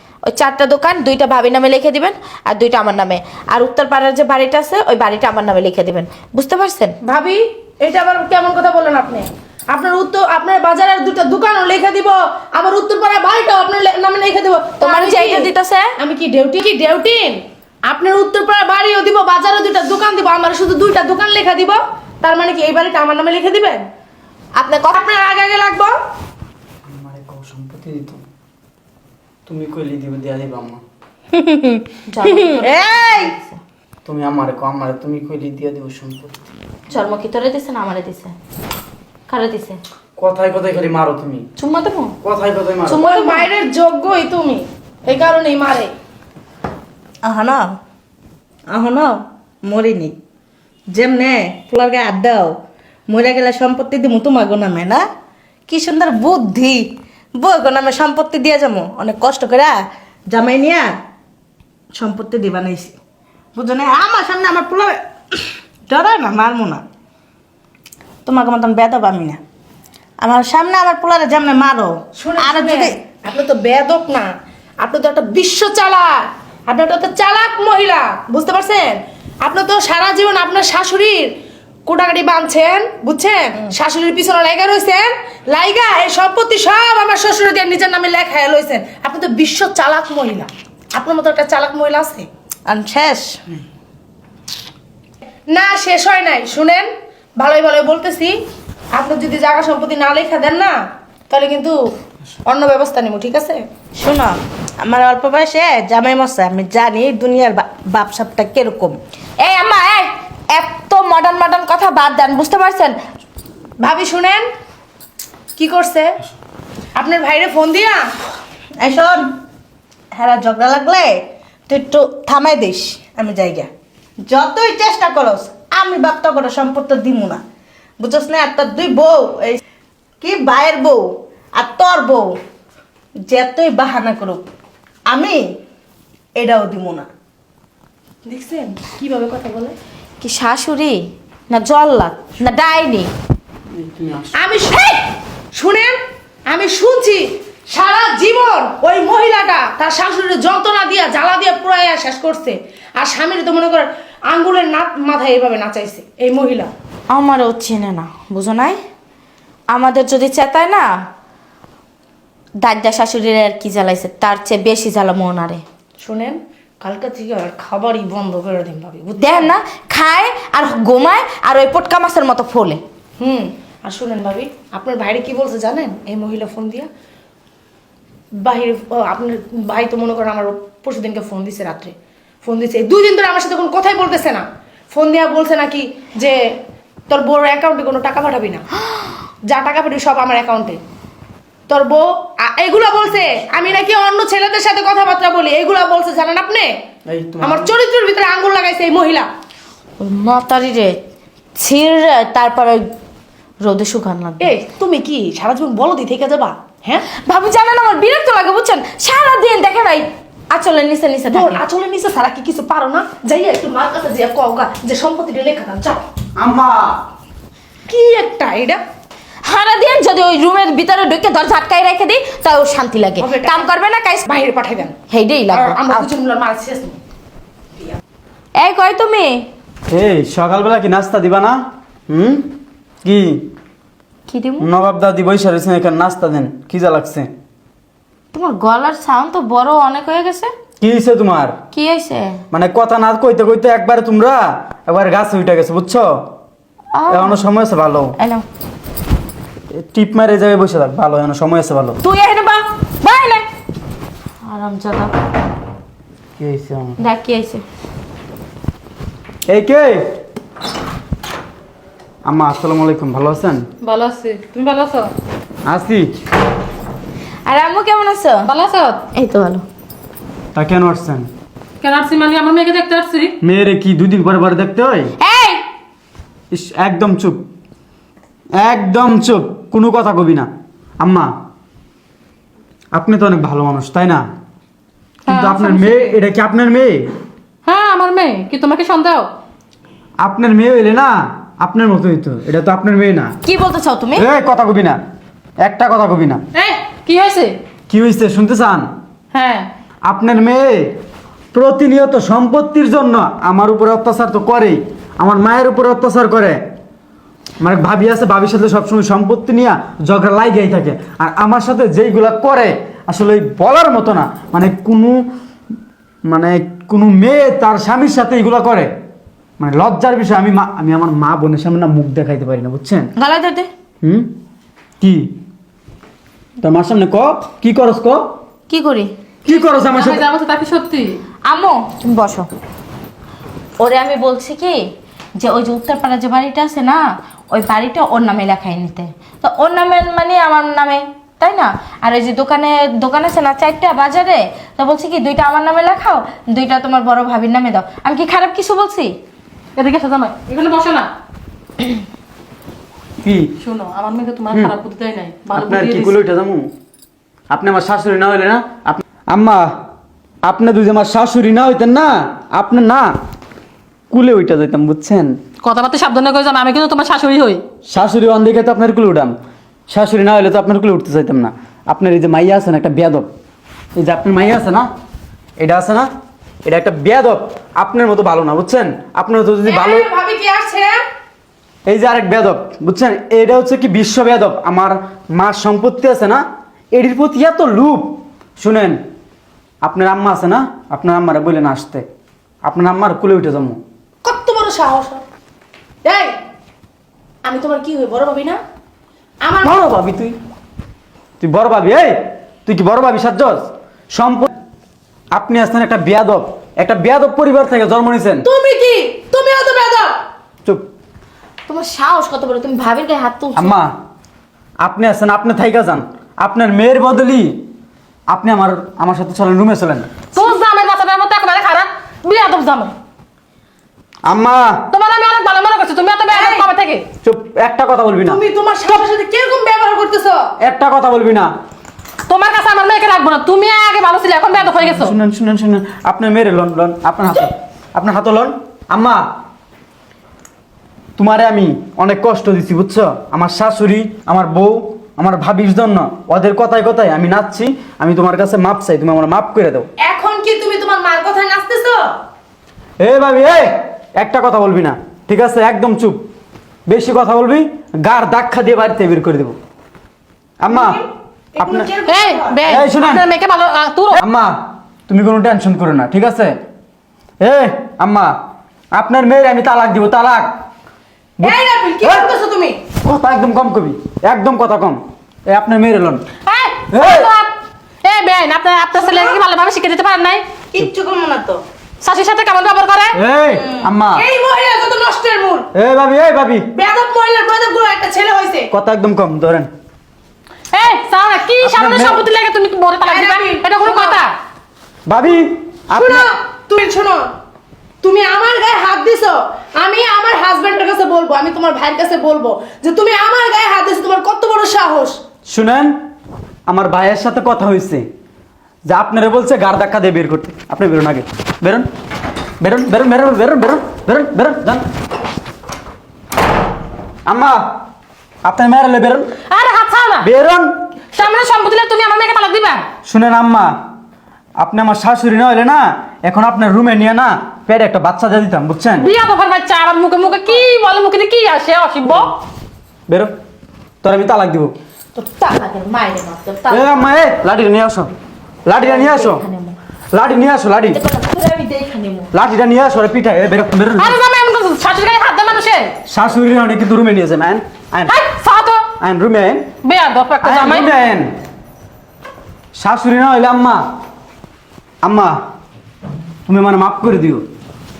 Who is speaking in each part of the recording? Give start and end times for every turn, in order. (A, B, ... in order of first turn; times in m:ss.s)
0:00.2-0:07.0 A
0:07.0-0:23.9 B
0:14.8-0:15.9 A
0:24.5-0:25.0 A
0:25.0-0:26.0 B
0:26.9-0:28.2 C
0:29.5-0:30.8 C
0:31.3-0:33.3 D
0:32.1-0:33.6 A
0:34.0-0:36.5 C
0:36.9-0:38.3 A
0:39.3-0:39.8 A
0:40.2-0:41.4 C
0:41.6-0:42.2 A
0:42.2-0:43.0 C
0:42.8-0:45.9 B
0:47.2-0:47.7 D
0:48.7-0:50.1 D
0:50.9-0:52.5 D
0:53.1-0:55.0 D
0:55.7-0:56.8 D
0:57.4-0:59.8 D
1:00.3-1:00.9 D
1:01.9-1:02.9 D
1:03.5-1:06.8 D
1:08.2-1:09.4 D
1:10.2-1:13.0 D
1:12.1-1:21.3 B
1:21.8-1:32.3 B
1:32.6-1:33.4 D
1:35.5-1:38.4 B
1:38.9-1:40.8 B
1:41.3-1:41.8 B
1:42.4-1:43.6 B
1:44.0-1:49.0 D
1:49.4-1:53.0 A
1:53.8-1:54.5 B
1:55.5-1:56.2 B
1:56.9-1:58.1 B
1:58.8-1:59.3 D
2:00.1-2:03.7 D
2:04.2-2:07.4 D
2:08.0-2:09.6 D
2:10.2-2:12.3 D
2:13.2-2:14.4 D
2:15.1-2:15.4 D
2:16.4-2:17.1 D
2:18.2-2:19.8 B
2:20.2-2:23.1 A
2:23.7-2:24.3 C
2:24.3-2:36.7 B
2:37.1-2:38.8 A
2:39.7-2:40.9 A
2:42.6-2:45.6 A
2:46.0-2:49.5 B
2:49.2-2:52.8 A
2:53.2-2:56.9 B
2:58.4-3:06.6 B
3:07.1-3:08.6 B
3:09.4-3:10.8 B
3:11.7-3:16.7 B
3:17.0-3:17.7 C
3:17.4-3:19.3 B
3:20.0-3:21.0 A
3:21.6-3:22.9 A
3:23.6-3:24.5 A
3:24.4-3:27.0 B
3:27.1-3:31.6 A
3:31.3-3:36.0 B
3:36.4-3:37.0 C
3:37.9-3:38.8 B
3:39.4-3:44.2 A
3:43.2-3:43.7 B
3:44.2-3:45.0 B
3:45.1-3:46.1 A
3:45.5-3:47.0 B
3:48.6-3:49.5 A
3:49.9-3:52.5 C
3:53.0-3:53.4 C
3:54.3-3:54.7 A
3:54.6-3:57.3 C
3:58.3-4:00.5 A
4:00.8-4:01.6 C
4:01.7-4:02.4 A
4:02.5-4:06.1 C
4:06.9-4:07.4 A
4:07.1-4:08.1 C
4:08.2-4:08.4 A
4:09.7-4:12.0 C
4:12.0-4:13.4 A
4:14.4-4:15.1 A
4:16.4-4:17.0 C
4:17.0-4:17.6 A
4:19.5-4:20.0 C
4:22.2-4:23.6 C
4:23.8-4:25.1 E
4:25.6-4:26.1 C
4:27.4-4:28.5 A
4:28.4-4:29.0 E
4:29.1-4:29.6 A
4:30.5-4:31.3 C
4:31.8-4:33.3 E
4:33.4-4:35.1 C
4:35.2-4:35.6 A
4:36.5-4:37.4 C
4:38.5-4:40.5 C
4:41.0-4:41.3 C
4:42.9-4:44.2 C
4:45.2-4:46.1 E
4:45.3-4:47.1 C
4:47.6-4:49.3 E
4:50.2-4:53.4 C
4:53.4-4:54.3 A
4:54.1-4:55.0 C
4:55.6-4:56.4 C
4:56.5-4:57.5 E
4:57.9-4:58.9 C
4:59.3-4:59.7 E
5:00.0-5:00.9 C
5:01.5-5:06.6 C
5:07.6-5:15.2 C
5:16.3-5:18.9 C
5:19.6-5:23.1 C
5:23.2-5:23.7 A
5:24.0-5:24.3 C
5:25.0-5:25.3 C
5:26.6-5:28.3 C
5:28.7-5:29.1 A
5:29.4-5:30.2 C
5:29.5-5:31.2 E
5:31.4-5:32.5 A
5:33.8-5:49.1 A
5:49.8-5:51.1 E
5:53.2-5:53.5 C
5:53.6-5:56.2 E
5:55.5-5:56.7 C
5:57.5-5:59.7 C
6:00.4-6:03.1 C
6:04.1-6:05.4 C
6:05.6-6:07.6 E
6:07.9-6:09.3 C
6:09.9-6:13.3 C
6:14.0-6:14.9 C
6:15.6-6:16.1 C
6:16.6-6:20.1 C
6:19.6-6:21.0 B
6:21.8-6:29.0 C
6:29.8-6:32.0 C
6:32.6-6:33.8 C
6:34.2-6:35.2 B
6:36.0-6:36.3 B
6:37.4-6:38.6 B
6:39.4-6:39.9 B
6:39.6-6:40.3 C
6:41.4-6:44.5 C
6:45.3-6:48.4 C
6:48.4-6:50.2 B
6:51.7-6:53.7 A
6:53.5-6:53.9 C
6:54.8-6:57.6 C
6:58.3-7:00.1 C
7:00.3-7:02.9 E
7:04.2-7:04.8 C
7:04.9-7:07.0 E
7:06.3-7:06.7 B
7:07.2-7:08.4 C
7:08.2-7:10.4 B
7:10.6-7:11.5 C
7:12.3-7:15.1 E
7:14.6-7:19.2 C
7:21.2-7:29.9 C
7:30.0-7:32.0 B
7:33.0-7:36.2 C
7:36.9-7:39.5 C
7:40.6-7:41.0 C
7:40.6-7:42.6 B
7:41.6-7:41.9 C
7:42.0-7:44.2 E
7:42.6-7:43.2 C
7:44.1-7:44.6 C
7:45.1-7:46.6 C
7:47.4-7:48.3 C
7:48.9-7:50.5 C
7:51.4-7:52.3 C
7:51.4-7:52.8 B
7:53.0-7:56.2 C
7:56.4-7:57.5 E
7:56.9-7:57.3 C
7:58.0-8:00.4 E
7:59.0-7:59.3 B
8:00.7-8:01.6 D
8:02.0-8:03.1 E
8:03.1-8:04.2 C
8:04.1-8:05.7 B
8:05.7-8:06.6 C
8:06.7-8:08.7 B
8:08.7-8:09.7 C
8:10.7-8:14.3 E
8:11.6-8:12.2 C
8:13.0-8:14.2 B
8:15.1-8:16.3 C
8:15.9-8:17.2 B
8:18.0-8:25.2 B
8:25.5-8:26.0 C
8:26.7-8:28.0 C
8:28.9-8:31.9 C
8:32.6-8:34.8 C
8:37.2-8:37.6 C
8:38.4-8:39.3 C
8:39.5-8:40.3 E
8:40.2-8:40.7 C
8:41.1-8:42.8 E
8:43.0-8:43.7 C
8:44.6-8:49.1 C
8:49.0-8:52.3 E
8:54.0-8:54.7 C
8:55.2-8:57.1 A
8:56.7-8:58.1 C
8:58.6-8:59.4 C
8:58.8-8:59.8 A
9:00.1-9:01.0 C
9:00.9-9:02.3 A
9:02.3-9:04.2 C
9:04.0-9:05.9 E
9:06.1-9:08.1 C
9:08.1-9:08.8 E
9:09.0-9:09.7 C
9:09.8-9:10.9 E
9:10.4-9:11.3 C
9:12.8-9:13.8 C
9:15.0-9:15.4 C
9:16.4-9:17.4 C